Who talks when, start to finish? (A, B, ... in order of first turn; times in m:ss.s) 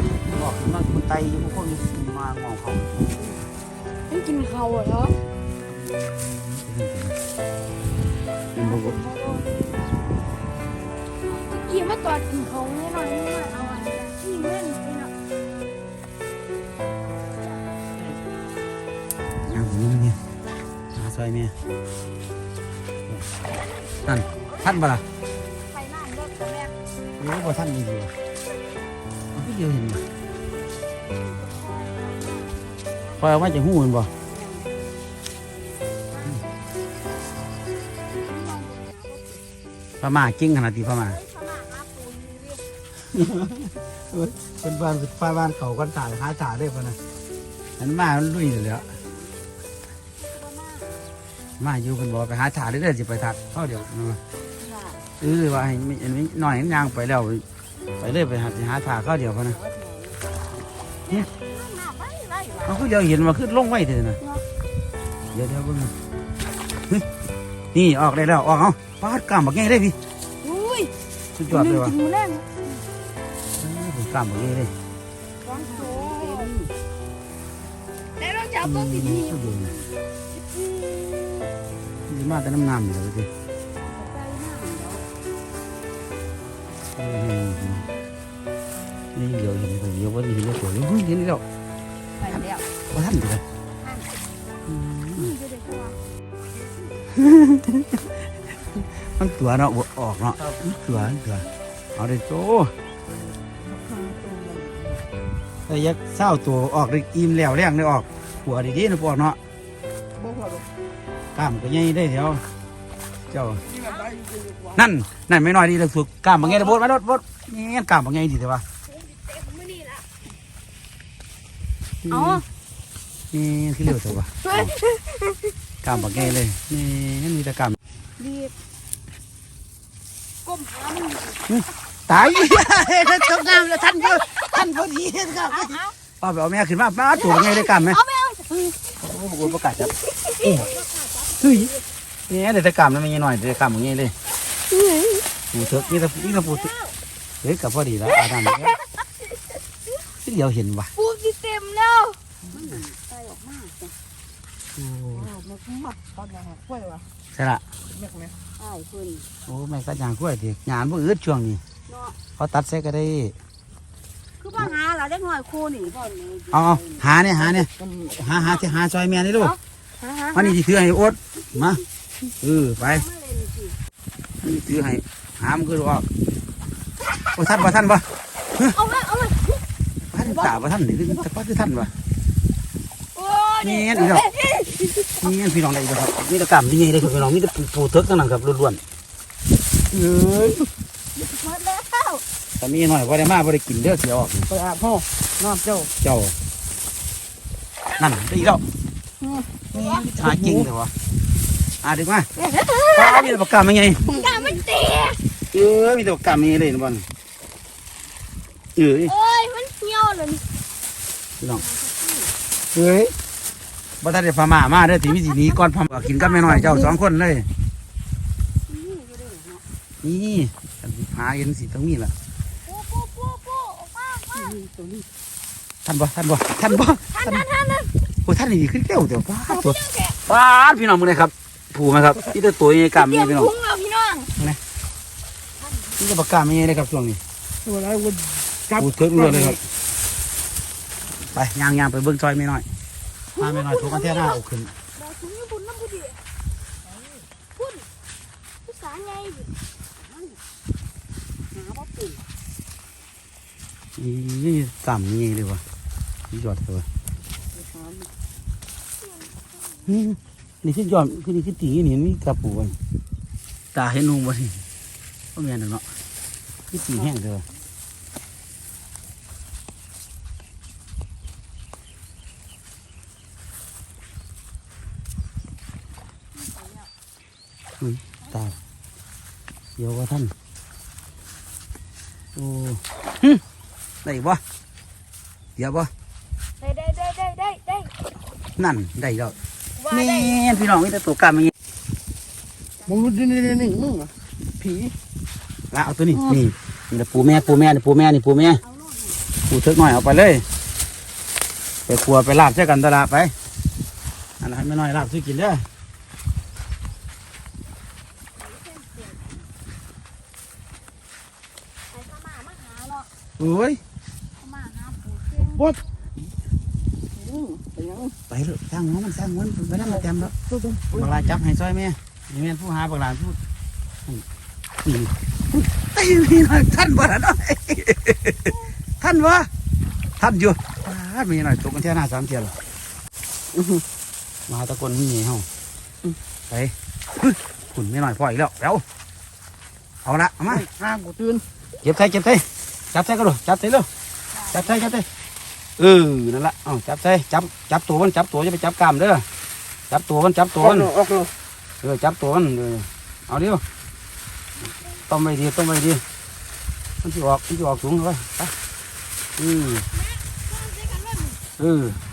0:00.2-0:03.3 A
0:04.1-0:05.2 B
0:05.9-0:07.2 A
0:08.6-0:09.0 A
0:08.6-0:09.5 B
0:11.3-0:15.1 B
0:17.1-0:17.6 B
0:19.5-0:20.2 A
0:20.9-0:21.5 A
0:23.5-0:24.7 B
0:24.1-0:25.0 A
0:25.7-0:26.8 B
0:27.2-0:28.1 A
0:29.4-0:30.0 A
0:31.1-0:33.5 B
0:33.2-0:34.1 A
0:34.2-0:34.7 B
0:36.1-0:36.4 B
0:38.2-0:39.4 B
0:40.0-0:41.2 A
0:41.0-0:42.6 B
0:43.1-0:47.0 A
0:47.8-0:48.9 A
0:48.8-0:49.3 B
0:50.2-0:51.0 B
0:51.6-0:54.2 A
0:54.6-0:55.0 B
0:55.2-0:57.4 A
0:58.0-0:59.6 A
0:59.5-1:00.2 B
1:01.1-1:02.9 B
1:02.6-1:04.2 A
1:05.3-1:05.9 A
1:07.7-1:10.0 A
1:10.4-1:10.9 B
1:11.4-1:12.0 A
1:11.5-1:12.8 B
1:13.6-1:14.7 A
1:15.4-1:16.7 B
1:15.8-1:16.4 C
1:18.2-1:19.8 B
1:18.6-1:19.7 A
1:20.4-1:21.5 B
1:22.1-1:23.3 A
1:23.8-1:25.1 B
1:27.0-1:27.9 A
1:29.2-1:31.4 A
1:32.2-1:32.7 B
1:32.3-1:33.4 A
1:33.8-1:34.1 B
1:34.7-1:35.3 A
1:35.2-1:36.0 B
1:37.1-1:38.1 A
1:39.0-1:42.7 A
1:45.7-1:49.4 A
1:51.4-1:52.4 A
1:53.3-1:53.6 A
1:53.8-1:54.1 B
1:54.7-1:58.6 A
1:59.3-2:00.0 B
2:02.0-2:02.4 A
2:02.1-2:02.4 B
2:03.3-2:04.7 A
2:04.4-2:06.3 B
2:05.8-2:07.8 A
2:08.2-2:08.5 B
2:10.4-2:11.5 B
2:11.5-2:18.0 A
2:12.3-2:14.4 B
2:15.5-2:15.9 B
2:17.2-2:18.8 B
2:19.0-2:20.7 A
2:20.2-2:21.8 B
2:21.4-2:21.7 A
2:22.3-2:24.2 A
2:24.7-2:27.0 B
2:25.5-2:26.7 A
2:27.4-2:28.8 A
2:28.2-2:28.8 B
2:30.2-2:30.9 A
2:31.0-2:34.0 B
2:34.8-2:35.4 A
2:37.3-2:37.6 A
2:38.6-2:39.3 B
2:39.5-2:41.6 A
2:41.9-2:42.2 B
2:42.4-2:43.4 A
2:44.4-2:47.1 B
2:46.5-2:49.6 A
2:49.4-2:50.6 B
2:50.3-2:51.8 A
2:52.4-2:53.0 A
2:52.8-2:53.8 B
2:54.4-2:56.1 A
2:57.4-2:58.0 A
2:58.7-2:59.6 B
3:00.1-3:01.9 A
3:00.2-3:00.5 B
3:03.2-3:05.2 B
3:03.6-3:04.3 A
3:05.2-3:08.8 A
3:10.0-3:10.6 C
3:11.2-3:12.2 B
3:12.6-3:14.5 A
3:15.4-3:15.8 C
3:16.0-3:16.3 A
3:18.0-3:18.6 A
3:19.7-3:20.9 A
3:19.8-3:20.1 B
3:21.8-3:22.3 A
3:22.4-3:23.3 B
3:22.9-3:24.0 A
3:24.1-3:25.2 B
3:24.1-3:24.4 C
3:25.5-3:27.0 A
3:28.8-3:29.1 A
3:29.0-3:30.4 B
3:31.5-3:32.3 B
3:32.7-3:33.1 A
3:34.0-3:37.5 A
3:35.0-3:36.9 B
3:38.7-3:39.6 B
3:40.0-3:42.1 A
3:42.7-3:44.6 B
3:45.8-3:47.5 A
3:46.7-3:47.9 B
3:48.3-3:53.5 A
3:49.5-3:50.2 B
3:52.9-3:54.3 B
3:55.6-3:56.0 B
3:56.0-3:57.2 A
3:57.7-3:58.2 C
3:58.7-3:59.6 A
4:01.3-4:02.7 A
4:03.4-4:04.4 B
4:03.4-4:04.7 A
4:05.0-4:06.2 B
4:07.6-4:07.9 B
4:08.7-4:10.4 B
4:11.5-4:12.2 B
4:14.0-4:15.6 A
4:16.3-4:16.9 A
4:17.6-4:18.1 B
4:19.0-4:19.9 B
4:19.9-4:22.8 A
4:23.7-4:24.6 A
4:25.4-4:25.8 A
4:26.7-4:27.4 A
4:26.8-4:27.1 B
4:36.4-4:36.9 B
4:37.8-4:38.6 A
4:39.8-4:40.3 A
4:42.4-4:43.4 A
4:44.0-4:44.4 A
4:45.6-4:45.9 A
4:46.6-4:47.9 B
4:48.6-4:49.4 A
4:49.8-4:50.7 B
4:49.9-4:51.5 A
4:52.9-4:54.0 C
4:55.7-4:58.6 A
4:57.2-4:57.6 B
4:58.6-4:59.2 B
4:59.4-5:00.5 A
5:01.9-5:03.3 A
5:04.4-5:05.6 A
5:08.4-5:09.4 B
5:11.9-5:13.1 B
5:13.4-5:13.8 A
5:14.4-5:15.7 B
5:17.6-5:17.9 C
5:18.3-5:20.3 A
5:20.9-5:23.4 A
5:24.8-5:29.5 A
5:30.2-5:32.5 A
5:34.5-5:35.5 A
5:36.5-5:38.8 A
5:40.0-5:40.7 A
5:40.9-5:41.3 C
5:41.8-5:43.9 A
5:44.5-5:45.1 A
5:45.8-5:49.3 A
5:49.9-5:51.0 A
5:51.8-5:53.6 A
5:55.1-5:56.0 A
5:57.0-5:58.5 A
5:59.4-5:59.8 A
5:59.6-6:01.4 B
6:01.6-6:02.0 A